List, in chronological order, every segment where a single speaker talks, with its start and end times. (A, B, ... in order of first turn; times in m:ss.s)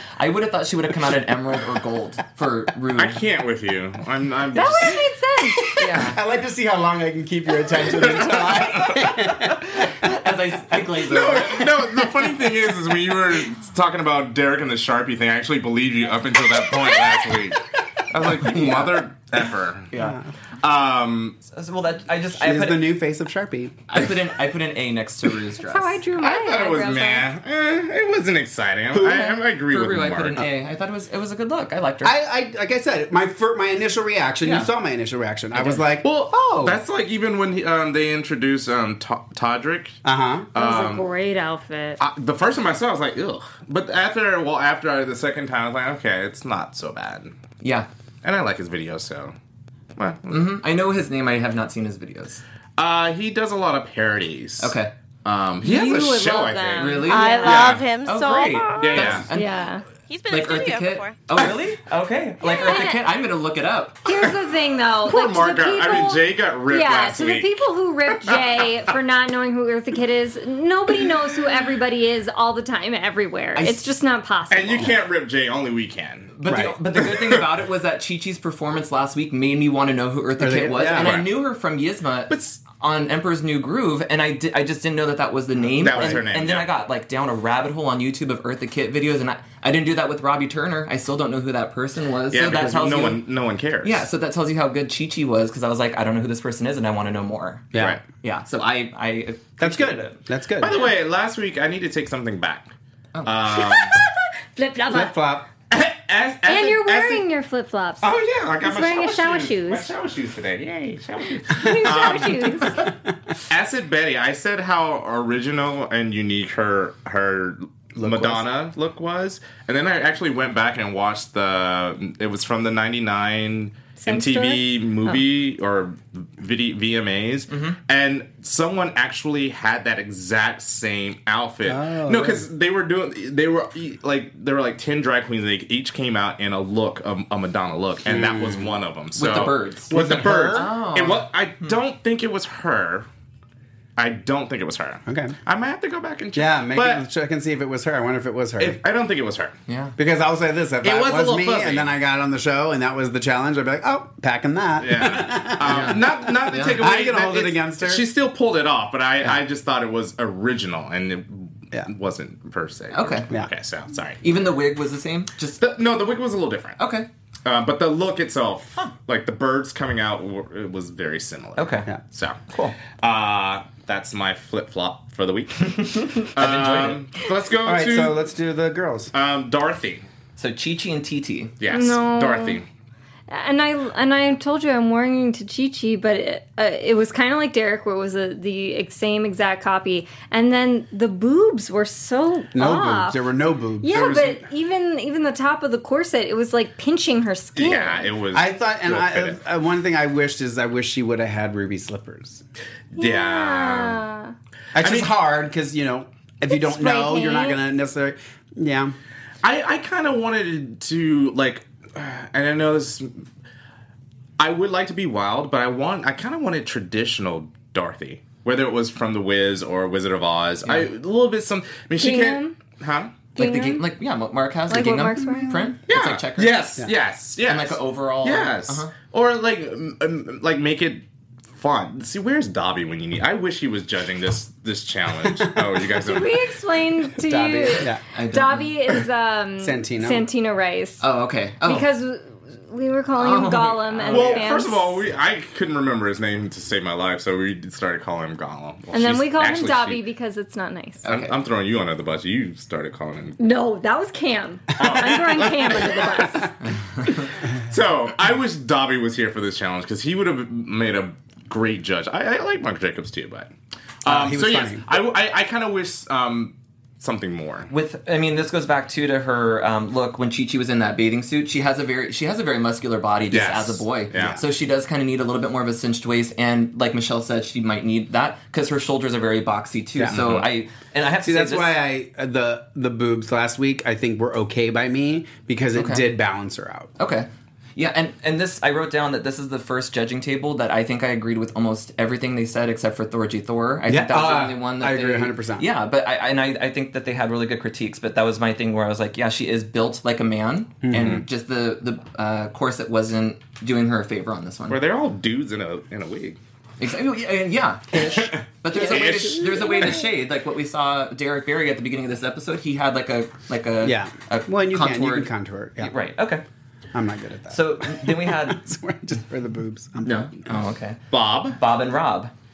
0:00.2-0:03.2 A
0:03.0-0:05.0 B
0:04.5-0:05.8 C
0:05.8-0:06.2 A
0:05.8-0:10.0 D
0:08.0-0:08.9 B
0:09.7-0:11.7 A
0:11.0-0:19.9 B
0:18.4-0:18.9 A
0:19.9-0:20.2 A
0:19.9-0:20.3 D
0:20.6-0:21.4 B
0:21.5-0:22.9 A
0:22.3-0:23.8 D
0:23.9-0:26.0 A
0:25.6-0:27.3 C
0:26.2-0:30.4 B
0:28.9-0:29.4 D
0:29.7-0:32.1 A
0:32.0-0:36.8 D
0:34.4-0:34.7 A
0:35.5-0:35.8 A
0:36.0-0:40.0 B
0:40.0-0:40.5 D
0:40.5-0:41.1 B
0:40.5-0:42.0 C
0:42.0-0:47.4 B
0:47.6-0:47.9 A
0:48.2-0:49.3 B
0:50.0-0:50.6 B
0:50.3-0:52.4 A
0:52.8-0:57.8 B
0:54.6-0:54.9 A
0:55.6-0:57.7 C
0:56.8-0:59.6 A
0:57.0-0:59.2 E
0:58.8-0:59.3 B
0:59.3-0:59.8 C
1:00.1-1:01.3 E
1:00.3-1:04.0 A
1:02.4-1:03.0 C
1:04.0-1:14.9 C
1:05.1-1:07.6 B
1:13.6-1:13.8 A
1:14.5-1:16.3 B
1:16.4-1:33.2 A
1:16.4-1:16.8 D
1:16.9-1:17.4 B
1:20.4-1:21.2 D
1:20.9-1:21.4 B
1:25.8-1:26.7 B
1:25.9-1:26.2 D
1:32.3-1:34.0 B
1:33.8-1:40.2 A
1:37.7-1:38.0 D
1:39.6-1:40.8 D
1:40.6-1:42.7 B
1:43.2-1:44.0 B
1:43.6-1:45.1 C
1:44.9-1:45.4 D
1:45.7-1:47.2 B
1:46.4-1:48.1 C
1:48.0-1:52.9 B
1:48.6-1:49.9 C
1:51.5-1:52.9 C
1:53.5-2:23.1 B
1:58.0-1:58.4 D
2:04.0-2:05.2 C
2:07.5-2:07.8 A
2:11.6-2:12.5 D
2:18.0-2:18.7 D
2:19.2-2:19.9 A
2:19.9-2:20.7 D
2:20.5-2:21.7 A
2:24.0-2:27.0 B
2:25.0-2:25.3 D
2:26.3-2:28.8 D
2:28.6-2:29.5 B
2:29.7-2:29.9 A
2:30.0-2:38.1 D
2:30.8-2:31.9 B
2:34.8-2:44.2 B
2:35.6-2:36.8 A
2:42.9-2:43.3 A
2:44.2-2:45.6 A
2:45.6-2:46.8 B
2:46.8-2:47.1 A
2:47.4-2:58.2 B
2:51.6-2:51.9 A
2:55.7-2:57.0 A
2:57.6-2:59.1 D
2:59.1-3:00.1 B
3:00.4-3:01.5 A
3:01.6-3:02.6 B
3:01.7-3:02.6 C
3:03.3-3:13.2 C
3:12.5-3:14.5 D
3:13.8-3:18.1 C
3:17.6-3:19.4 B
3:18.3-3:22.4 D
3:22.9-3:24.0 B
3:23.0-3:24.3 C
3:24.7-3:28.9 D
3:24.8-3:25.1 B
3:26.5-3:27.6 C
3:29.4-3:33.1 B
3:34.4-3:43.2 B
3:42.0-3:42.6 C
3:43.3-3:46.7 A
3:43.4-3:43.8 C
3:44.7-3:45.7 C
3:45.9-3:51.0 B
3:47.4-3:48.9 A
3:51.5-3:56.4 B
3:55.2-3:56.0 D
3:56.0-4:01.0 C
3:57.2-3:58.0 D
3:58.1-3:58.7 A
3:59.6-4:00.2 D
4:01.0-4:01.9 A
4:01.6-4:05.0 C
4:03.2-4:04.5 A
4:04.1-4:10.0 B
4:08.9-4:11.0 C
4:11.0-4:11.3 A
4:11.0-4:13.4 B
4:13.4-4:16.5 C
4:14.8-4:16.4 B
4:14.8-4:16.2 D
4:17.5-4:23.5 B
4:24.0-4:27.7 B
4:24.0-4:24.9 D
4:27.7-4:41.8 A
4:33.3-4:34.4 B
4:34.1-4:34.4 D
4:39.9-4:40.2 D
4:40.1-4:40.5 B
4:41.2-4:46.9 D
4:45.8-4:46.0 A
4:47.0-5:04.8 A
4:53.8-4:55.7 D
5:00.8-5:01.2 D
5:04.7-5:06.4 B
5:06.8-5:16.4 A
5:07.9-5:08.3 D
5:08.1-5:10.0 B
5:09.0-5:09.6 D
5:13.8-5:15.9 D
5:16.9-5:20.6 D
5:17.5-5:18.6 A
5:20.0-5:21.0 A
5:21.1-5:21.6 B
5:21.6-5:22.3 A